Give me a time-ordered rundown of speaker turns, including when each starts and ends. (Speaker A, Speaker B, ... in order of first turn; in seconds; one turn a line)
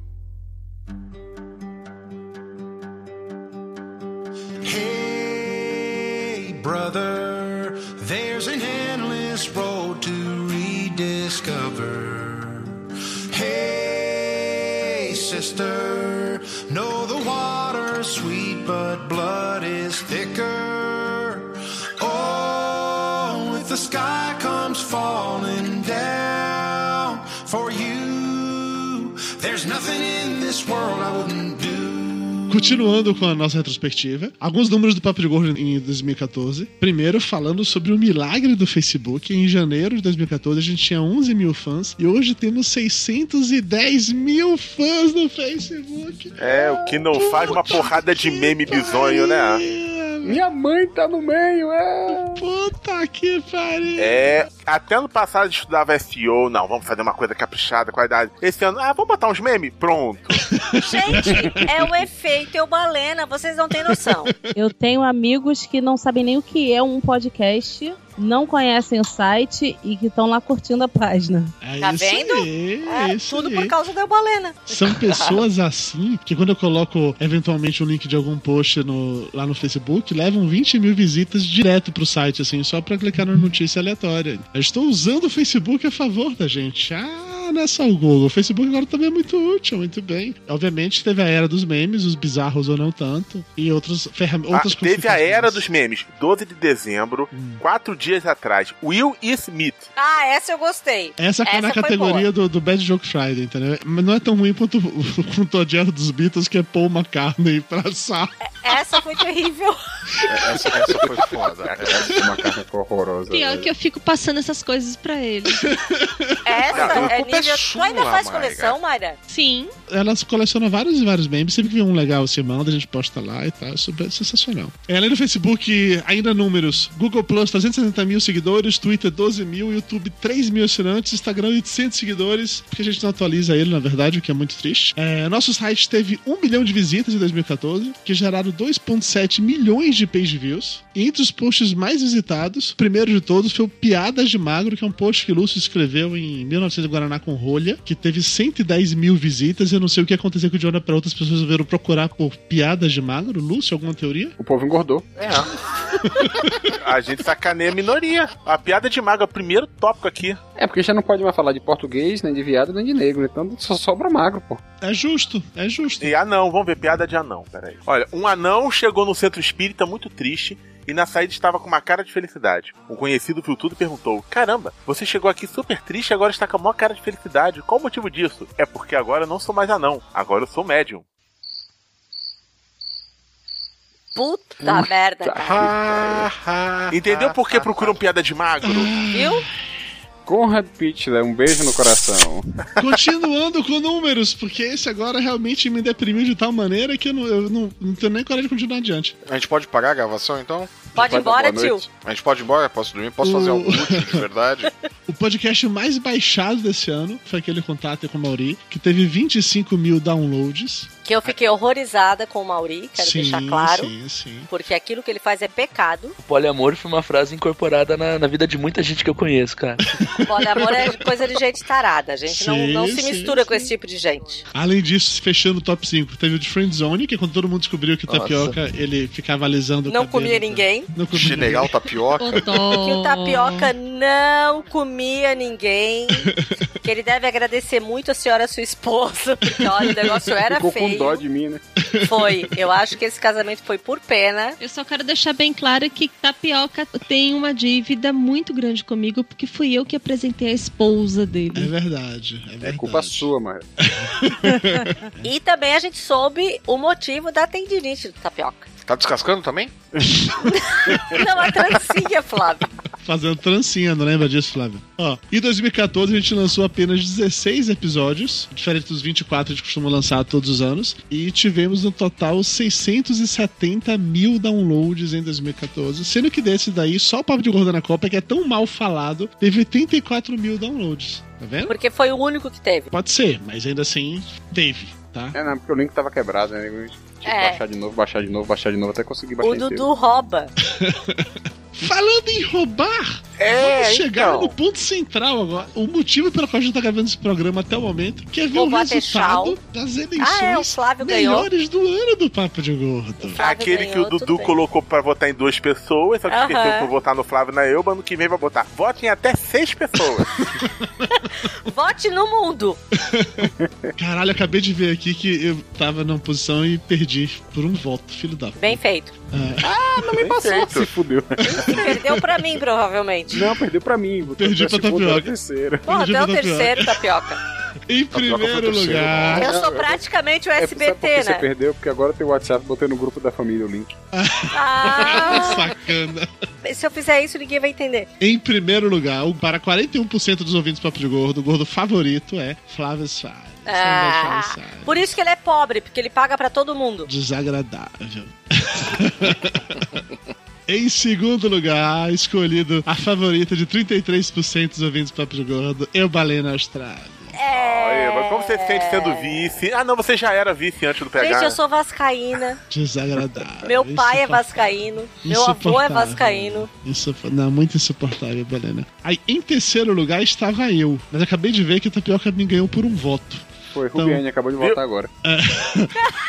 Speaker A: 4.6-32.7
Speaker B: 32.5-50.4
Speaker C: 46.4-49.6
Speaker D: 50.2-52.4
Speaker B: 52.1-54.3
Speaker C: 54.0-60.5
Speaker B: 60.5-61.9
Speaker E: 60.7-64.3
Speaker B: 63.9-64.4
Speaker F: 64.5-71.5
Speaker B: 71.6-73.7
Speaker E: 71.8-75.3
Speaker B: 74.7-95.6
Speaker C: 94.5-99.9
Speaker B: 97.3-97.6
Speaker E: 100.0-102.3
Speaker B: 101.2-108.4
Speaker E: 108.5-109.8
Speaker G: 110.3-112.2
Speaker D: 111.2-113.7
Speaker H: 113.3-115.7
Speaker B: 115.6-116.5
Speaker E: 116.4-119.2
Speaker G: 116.7-118.8
Speaker H: 119.3-119.7
Speaker B: 119.9-154.3
Speaker D: 154.4-155.2
Speaker C: 155.2-155.5
Speaker B: 156.1-156.5
Speaker C: 156.7-160.4
Speaker D: 160.6-164.6
Speaker B: 164.8-166.1
Speaker C: 166.0-181.0
Speaker E: 184.1-185.4
Speaker D: 184.6-186.3
Speaker G: 184.7-187.9
Speaker C: 186.9-188.9
Speaker B: 188.6-189.5
Speaker E: 189.1-189.4
Speaker D: 190.2-192.4
Speaker B: 192.8-199.2
Speaker G: 199.2-200.9
Speaker D: 200.9-201.8
Speaker E: 200.9-201.9
Speaker G: 201.9-204.7
Speaker B: 203.2-204.2
Speaker B: 205.1-210.9
Speaker E: 211.0-213.9
Speaker B: 213.0-214.5
Speaker E: 214.5-216.2
Speaker I: 216.2-219.8
Speaker B: 220.0-220.9
Speaker E: 220.2-224.4
Speaker B: 222.3-223.7
Speaker B: 224.5-231.7
Speaker I: 228.1-228.5
Speaker E: 229.9-230.9
Speaker G: 231.1-232.6
Speaker H: 232.2-233.7
Speaker E: 232.7-236.3
Speaker E: 236.8-241.2
Speaker D: 240.5-241.6
Speaker B: 241.8-242.1
Speaker E: 242.0-244.6
Speaker H: 244.6-251.7
Speaker B: 251.5-253.3
Speaker D: 252.6-253.7
Speaker B: 253.8-255.3
Speaker E: 255.2-258.7
Speaker G: 258.8-259.7
Speaker E: 260.6-262.7
Speaker B: 263.0-281.7
Speaker E: 281.7-282.9
Speaker B: 282.9-285.4
Speaker D: 285.3-289.9
Speaker E: 287.2-287.6
Speaker E: 289.4-290.5
Speaker B: 290.6-303.4
Speaker C: 293.4-294.5
Speaker E: 298.5-299.6
Speaker E: 300.2-301.5
Speaker E: 303.2-304.6
Speaker C: 303.4-310.4
Speaker E: 306.3-306.9
Speaker B: 310.6-311.1
Speaker E: 311.6-312.8
Speaker B: 313.0-318.8
Speaker D: 313.6-313.9
Speaker E: 318.6-319.1
Speaker B: 319.3-319.7
Speaker D: 319.6-322.0
Speaker E: 321.5-323.4
Speaker D: 323.3-325.9
Speaker B: 324.3-325.3
Speaker E: 325.8-327.4
Speaker B: 325.9-326.9
Speaker B: 327.9-329.5
Speaker D: 328.1-330.0
Speaker E: 329.3-331.4
Speaker D: 330.6-333.9
Speaker B: 334.1-336.3
Speaker E: 334.5-335.7
Speaker E: 336.6-338.1
Speaker B: 338.2-345.1
Speaker E: 343.7-347.1
Speaker B: 347.1-350.0
Speaker B: 350.7-357.3
Speaker E: 357.3-359.6
Speaker C: 357.5-361.6
Speaker E: 361.2-362.6
Speaker B: 362.7-364.6
Speaker E: 363.6-366.7
Speaker B: 365.2-374.2
Speaker D: 373.7-375.1
Speaker B: 375.2-376.0